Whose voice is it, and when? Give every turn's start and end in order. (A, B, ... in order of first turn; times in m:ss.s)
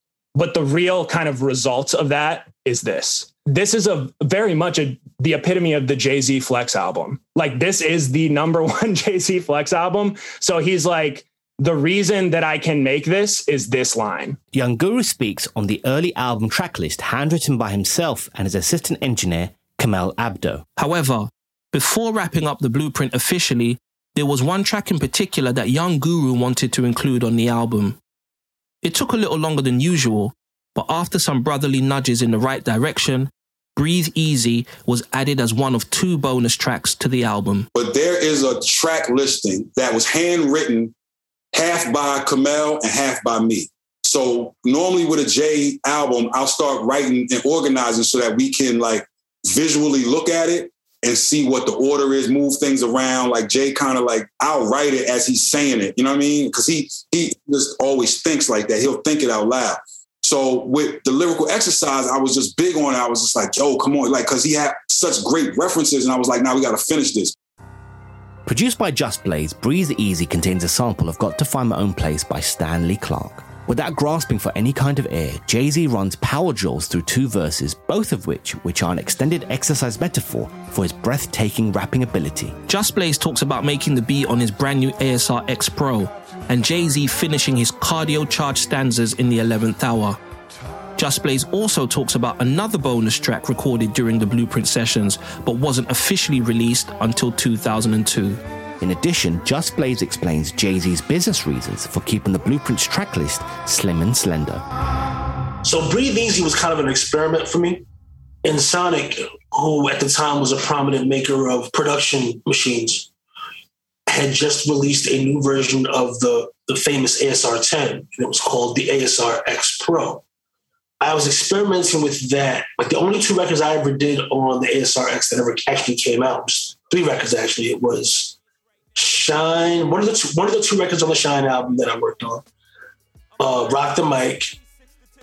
0:00.3-0:14.4 A
0:14.5-0:20.6 B
0:20.8-0:28.0 C
0:28.8-0:37.7 C
0:37.7-0:40.9 D
0:41.5-1:07.3 D
1:08.4-1:22.6 B
1:22.7-1:30.2 C
1:31.0-1:38.4 C
1:38.8-1:44.6 B
1:45.6-1:47.8 E
1:48.4-1:53.1 E
1:54.1-2:00.2 E
2:01.0-2:08.4 E
2:08.9-2:12.4 E
2:13.4-2:14.5 E